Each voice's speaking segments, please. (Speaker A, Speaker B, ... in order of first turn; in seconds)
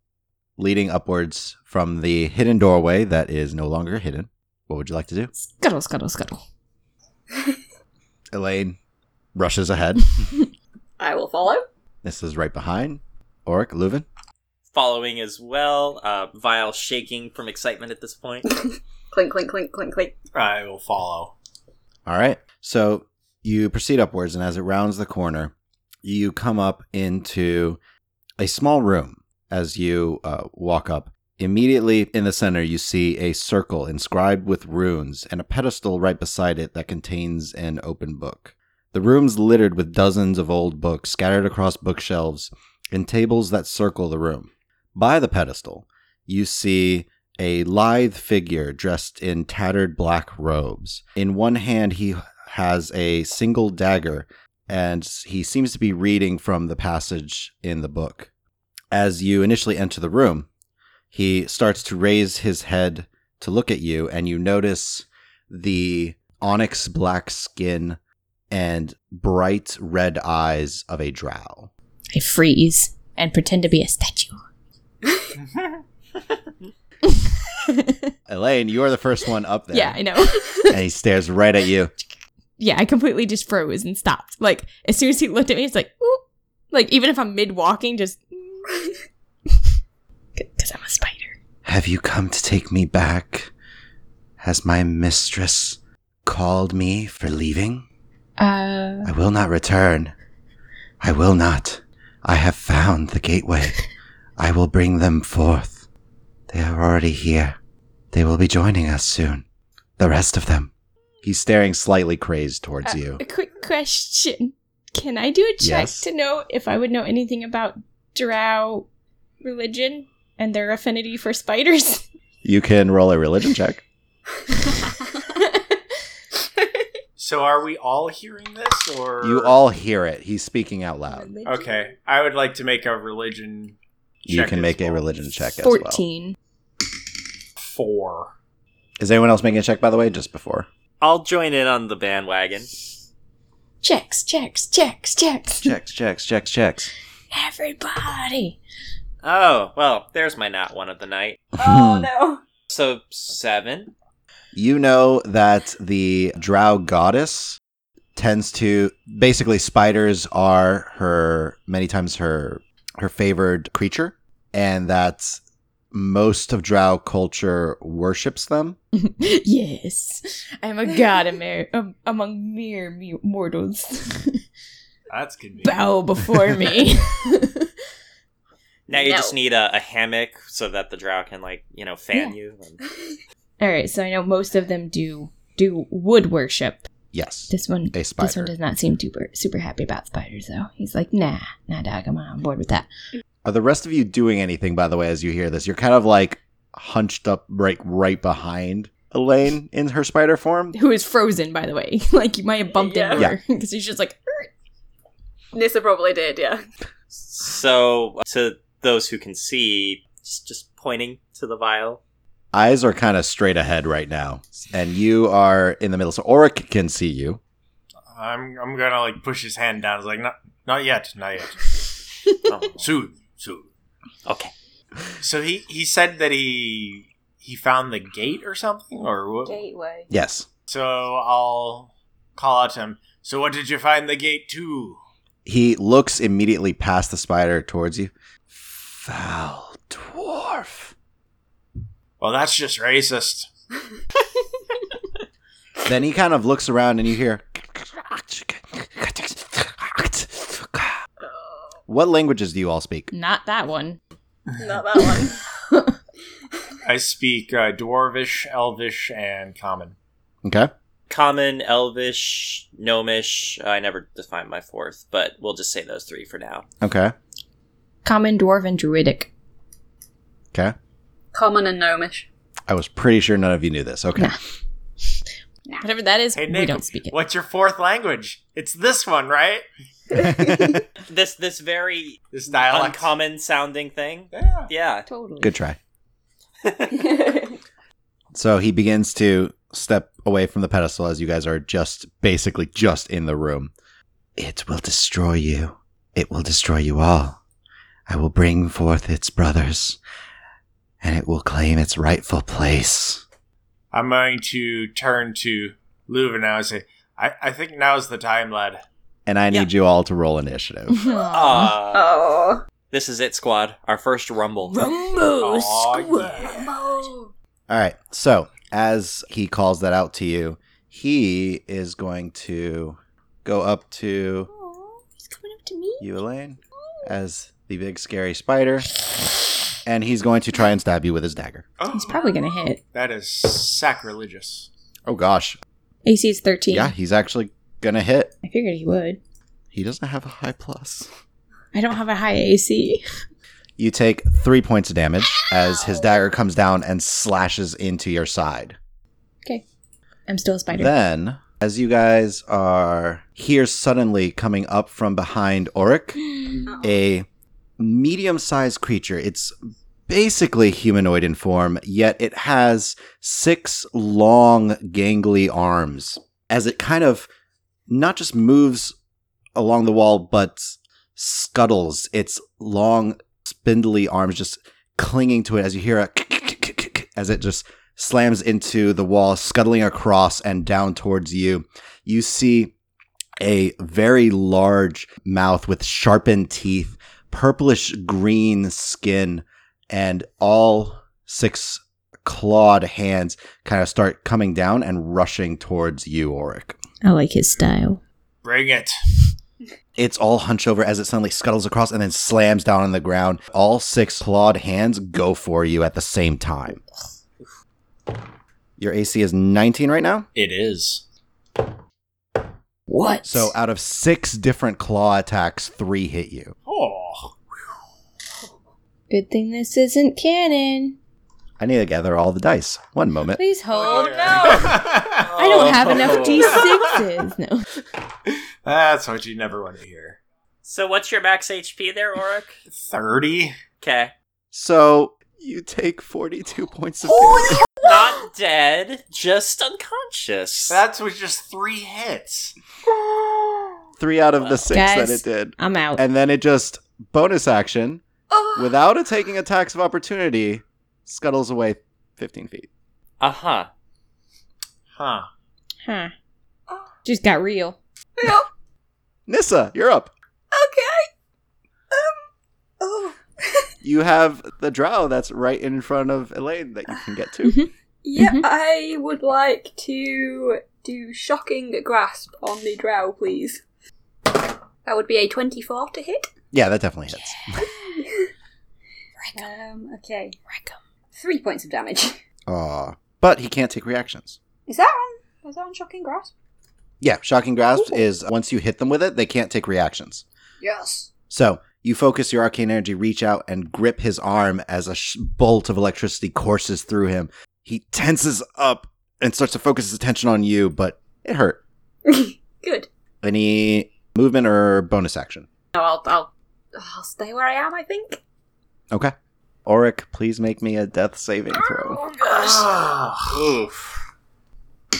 Speaker A: 0.6-5.3, 8.3-8.8, 9.3-10.3, 12.0-14.1, 22.1-25.5, 26.0-27.8, 28.4-58.3, 58.9-60.5, 61.1-68.0, 68.5-71.7, 78.3-81.9, 91.6-93.5, 94.4-97.8, 99.0-100.1, 101.0-103.8, 104.4-105.8, 106.5-107.5, 108.1-109.4, 110.0-110.7, 111.2-113.2, 115.6-116.0, 122.4-123.8, 129.2-131.3, 134.2-136.0, 139.0-140.7, 145.6-146.9, 151.6-152.1, 154.5-157.6, 158.2-165.4, 165.9-168.8, 187.1-188.5, 193.4-200.8, 212.5-217.4, 230.1-230.4, 235.4-240.9, 245.8-251.0, 251.9-253.1, 260.4-260.7, 266.8-267.1, 272.7-274.4, 280.1-280.8, 285.4-285.8, 288.3-293.7, 294.4-297.4, 298.1-300.0, 301.0-303.2, 309.2-311.0, 317.7-324.5, 326.0-328.9, 329.9-331.6, 335.1-335.6, 336.7-338.3, 339.7-341.1, 343.8-348.8, 350.7-356.3, 356.8-357.2, 357.8-359.5, 360.1-367.3, 367.9-368.9, 369.6-382.7, 383.4-396.8, 400.0-406.8, 408.8-410.3, 413.2-416.5, 421.6-423.4, 434.5-437.7, 444.0-448.0, 448.6-452.7, 459.3-460.1, 463.8-467.6, 476.5-477.6, 482.5-484.4, 487.0-490.2, 491.3-501.6, 503.2-505.5, 509.6-512.0
Speaker B: 5.4-6.4, 72.1-74.4, 77.0-78.1, 79.7-80.8, 82.6-88.9, 90.4-91.4, 98.4-99.1, 112.8-118.9, 119.4-122.0, 125.2-126.0, 131.1-131.9, 135.5-136.4, 143.8-145.7, 147.3-148.6, 169.0-174.4, 175.6-177.7, 183.6-186.9, 187.5-192.9, 200.7-204.5, 253.1-254.0, 255.0-255.9, 268.0-269.3, 275.8-277.1, 285.1-285.5, 310.9-311.7, 314.7-317.0, 324.5-326.1, 331.9-332.8, 336.0-336.9, 338.4-339.2, 341.7-343.0, 350.3-350.9, 356.3-356.7, 397.0-398.0, 412.9-413.5, 419.1-421.0, 423.4-427.7, 444.7-446.0, 455.8-456.1, 457.0-457.8, 467.4-468.4, 477.1-477.9, 479.2-479.5, 480.5-480.8
Speaker C: 11.0-11.7, 18.5-20.1, 151.6-152.4, 178.9-179.4, 202.7-203.2, 205.5-206.7, 229.4-230.1, 251.2-251.7, 254.6-255.4, 271.3-272.3, 311.9-312.6, 316.4-317.3, 356.7-357.0, 423.8-424.8, 448.3-448.8, 458.2-458.5, 460.5-461.1, 461.9-462.2, 462.8-463.7, 468.0-473.6, 474.8-476.3, 477.6-478.3, 479.3-480.4, 481.1-482.2, 484.7-486.3, 490.6-491.1, 502.1-502.9, 505.7-508.2, 511.5-512.6
Speaker D: 14.7-18.5, 141.0-142.7, 149.2-151.4, 152.7-153.9, 178.9-182.8, 207.2-212.0, 222.5-222.9, 224.2-224.5, 261.1-266.6, 281.1-285.1, 286.6-287.1, 311.3-312.1, 312.9-314.8, 425.2-426.6, 430.6-432.6, 433.8-434.1, 437.8-440.8, 453.2-453.7, 513.2-514.0
Speaker E: 20.3-21.3, 127.2-129.6, 131.4-133.8, 134.3-135.1, 137.6-138.3, 175.1-175.9, 218.1-221.8, 222.8-223.7, 225.2-229.6, 230.7-235.0, 242.2-243.5, 256.8-259.9, 276.4-279.6, 282.3-283.1, 284.3-284.7, 303.9-308.8, 315.4-316.7, 331.8-332.4, 332.9-334.7, 398.4-398.9, 410.4-411.0, 416.6-417.4, 423.7-427.0, 428.3-430.2, 432.7-433.5, 440.7-442.5, 454.9-455.3, 512.3-513.4